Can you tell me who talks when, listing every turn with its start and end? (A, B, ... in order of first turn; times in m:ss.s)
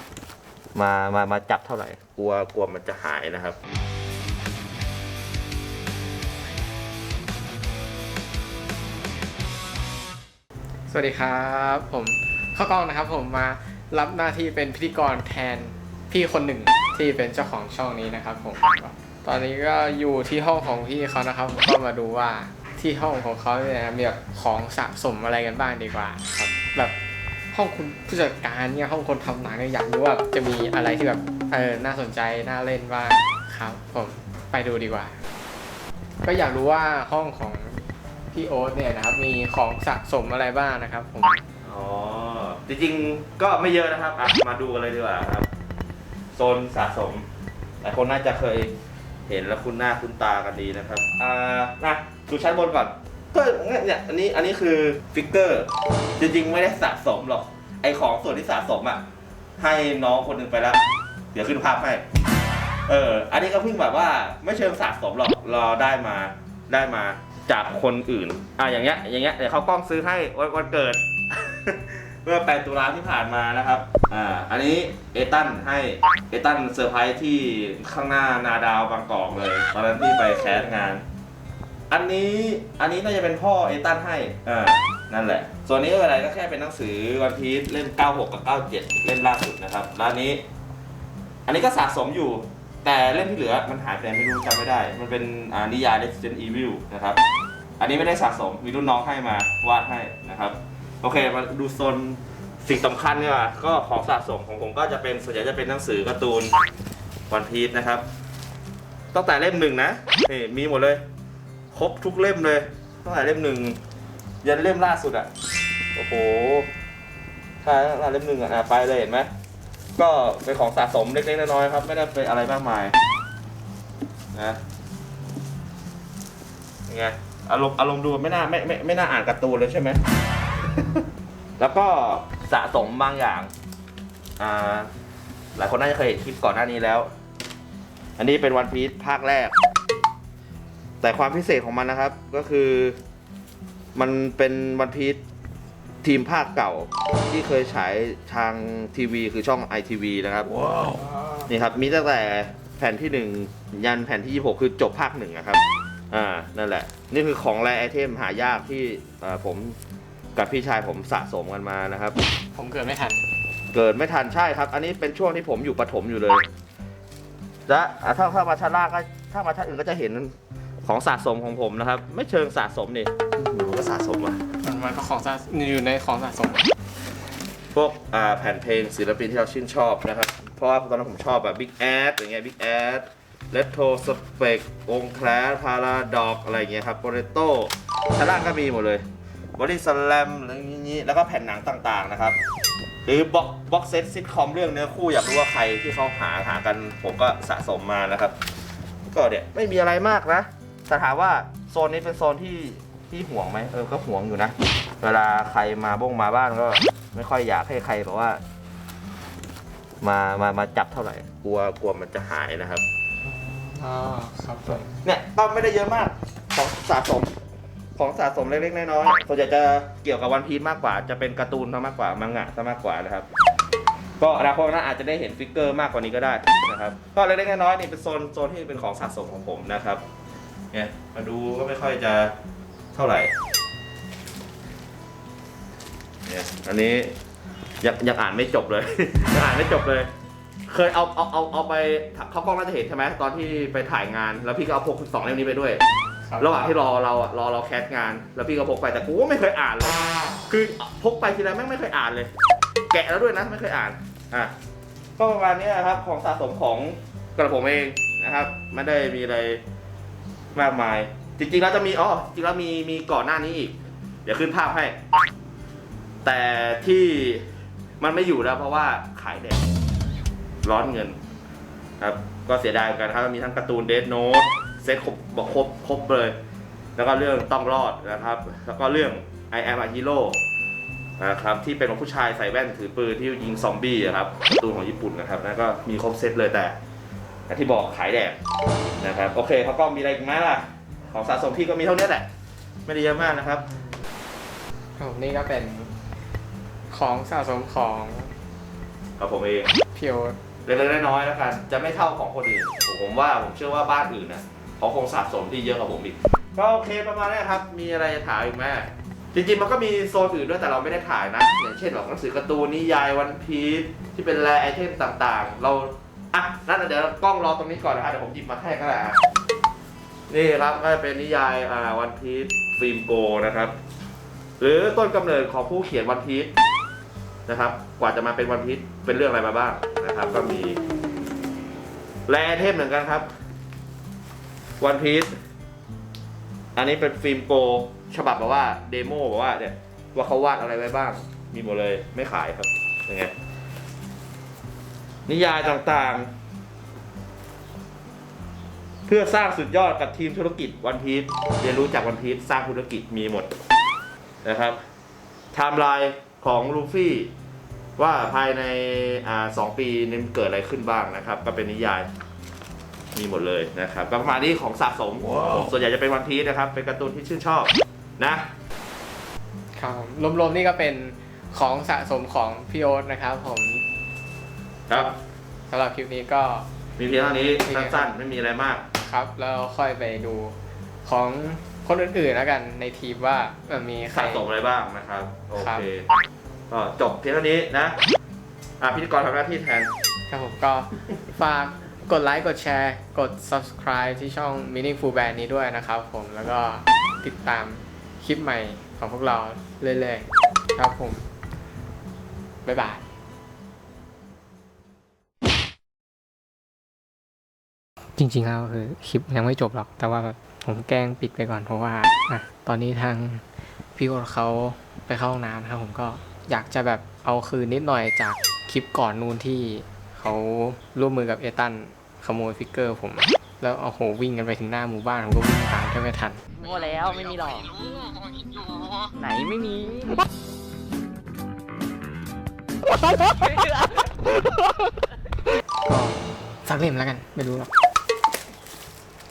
0:00.7-0:03.6 A
0:10.9-0:27.0 B
0:27.5-0:35.2 B
0:36.2-0:41.4 B
0:41.6-0:45.5 A
0:46.3-0:47.3 A
0:47.8-0:48.8 A
0:49.3-0:59.0 A
0:59.6-1:00.8 A
1:01.3-1:02.0 A
1:02.9-1:21.0 A
1:21.9-1:30.4 A
1:31.5-1:37.2 A
1:37.8-1:46.6 A
1:47.3-1:48.0 A
1:49.1-1:51.0 A
1:51.7-1:53.8 A
1:54.4-1:55.3 A
1:56.0-1:56.7 A
1:57.6-1:59.3 A
2:00.0-2:03.0 A
2:04.3-2:04.6 A
2:06.9-2:10.0 A
2:10.8-2:11.0 A
2:11.6-2:13.5 A
2:14.4-2:14.9 A
2:15.6-2:17.1 A
2:18.2-2:19.6 A
2:21.0-2:23.0 A
2:23.9-2:25.2 A
2:26.0-2:39.8 A
2:40.4-2:42.2 A
2:42.6-2:43.3 B
2:43.7-2:46.4 A
2:47.7-2:54.4 A
2:54.6-2:56.7 B
2:57.7-3:09.0 A
3:09.6-3:12.4 A
3:13.1-3:18.3 A
3:19.1-3:28.4 A
3:30.0-3:32.8 A
3:33.2-3:35.0 B
3:35.0-3:37.3 A
3:38.0-3:43.3 A
3:44.2-3:50.0 A
3:50.7-3:52.3 A
3:52.9-3:53.3 A
3:56.2-3:57.2 A
3:57.8-4:00.1 A
4:00.7-4:05.8 A
4:06.3-4:06.7 B
4:06.4-4:12.3 A
4:12.9-4:14.5 A
4:15.2-4:19.6 A
4:20.5-4:25.0 A
4:26.2-4:29.6 A
4:30.6-4:31.2 A
4:32.0-4:36.4 A
4:37.0-4:40.4 A
4:41.2-4:46.8 A
4:47.5-4:48.4 A
4:49.0-4:52.3 A
4:52.8-4:53.6 A
4:55.0-4:55.9 B
4:56.9-4:58.3 B
4:59.2-4:59.7 A
4:59.9-5:00.4 B
5:00.6-5:19.2 A
5:20.3-5:23.7 A
5:24.6-5:26.5 A
5:27.5-5:30.8 A
5:32.3-5:33.3 A
5:34.8-5:35.3 A
5:36.8-5:43.3 A
5:45.3-5:46.3 A
5:49.1-5:53.5 A
5:54.4-5:54.8 A
5:55.5-5:57.3 A
5:58.0-6:02.1 A
6:03.1-6:08.5 A
6:09.8-6:13.8 B
6:14.9-6:15.1 A
6:15.7-6:16.6 B
6:17.0-6:18.8 A
6:17.6-6:18.1 B
6:19.0-6:24.4 B
6:24.1-6:26.0 A
6:25.6-6:25.8 B
6:26.7-6:28.0 A
6:28.8-6:29.9 A
6:30.3-6:41.2 B
6:42.6-6:43.0 B
6:48.2-6:53.4 B
6:54.0-7:06.4 B
7:06.6-7:07.7 C
7:09.1-7:10.2 C
7:13.3-7:13.8 C
7:15.8-7:17.7 B